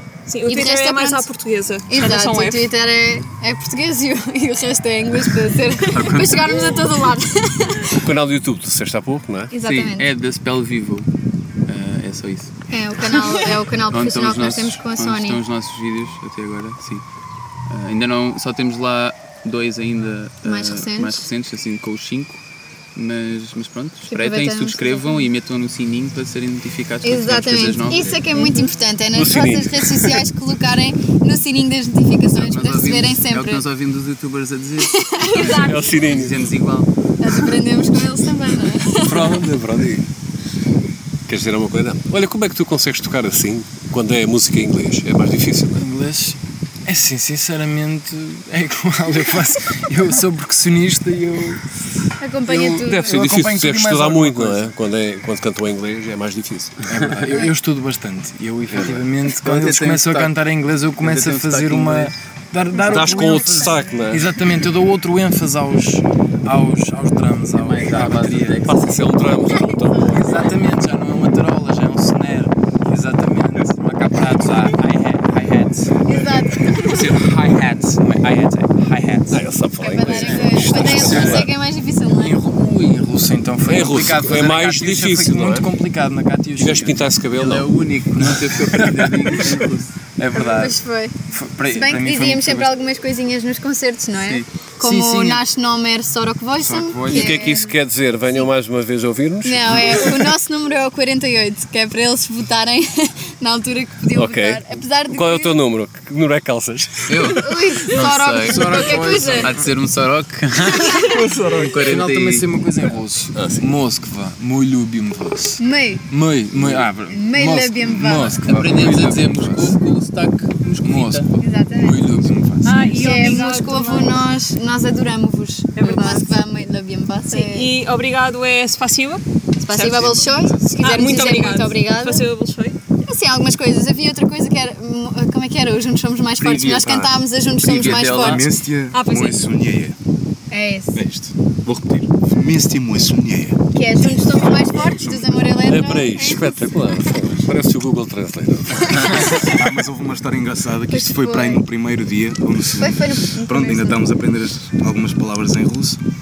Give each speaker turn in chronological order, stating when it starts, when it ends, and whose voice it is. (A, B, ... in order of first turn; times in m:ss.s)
0:00.3-0:02.7 A
0:00.4-0:01.3 B
0:01.9-0:08.0 B
0:05.9-0:06.9 C
0:08.0-0:09.5 D
0:09.5-0:10.1 B
0:09.6-0:11.1 C
0:11.7-0:12.5 C
0:12.7-0:15.4 B
0:13.9-0:17.0 C
0:17.7-0:22.4 C
0:20.4-0:21.2 B
0:22.9-0:28.3 C
0:24.1-0:25.3 B
0:27.0-0:33.6 B
0:28.3-0:28.6 A
0:29.1-0:30.2 D
0:32.3-0:36.9 C
0:34.9-0:35.8 B
0:35.4-0:35.7 A
0:35.4-0:36.4 D
0:37.2-0:39.4 B
0:39.0-0:40.0 D
0:41.3-0:45.8 D
0:45.8-0:51.7 E
0:52.2-0:53.2 B
0:52.4-0:54.7 E
0:52.8-0:56.8 D
0:56.9-1:08.6 E
0:58.7-0:59.0 D
0:58.8-1:00.3 C
1:01.0-1:02.1 C
1:02.9-1:04.3 D
1:07.6-1:08.9 C
1:08.6-1:10.6 D
1:10.1-1:16.0 E
1:16.1-1:17.1 B
1:16.7-1:19.4 E
1:19.3-1:21.5 D
1:19.8-1:22.4 B
1:20.0-1:21.5 E
1:22.1-1:27.0 E
1:23.6-1:25.7 D
1:26.6-1:27.7 D
1:27.4-1:29.9 C
1:28.2-1:29.6 E
1:30.2-1:32.7 E
1:30.3-1:31.2 B
1:31.7-1:37.8 B
1:34.2-1:35.4 C
1:34.8-1:35.4 E
1:36.6-1:37.4 E
1:37.1-1:40.3 D
1:39.4-1:45.5 B
1:44.1-1:47.6 D
1:47.1-1:52.5 C
1:47.3-1:49.5 B
1:48.4-1:49.6 E
1:51.1-1:51.7 D
1:51.3-1:59.8 E
1:53.3-1:53.6 D
1:55.6-1:56.0 B
1:57.1-1:58.4 B
1:58.4-2:01.4 C
2:00.8-2:03.1 E
2:01.4-2:02.0 B
2:02.6-2:04.3 A
2:02.9-2:07.7 B
2:05.8-2:06.4 A
2:07.3-2:09.2 A
2:09.6-2:12.2 B
2:09.7-2:10.6 F
2:09.8-2:10.3 C
2:10.8-2:12.8 A
2:13.0-2:18.5 B
2:16.4-2:17.2 F
2:17.6-2:18.5 C
2:17.8-2:20.0 F
2:18.9-2:19.4 A
2:20.5-2:21.0 B
2:20.9-2:25.6 F
2:23.7-2:27.1 B
2:25.6-2:29.4 D
2:29.0-2:29.3 B
2:29.4-2:36.0 F
2:30.9-2:31.6 B
2:32.7-2:34.0 B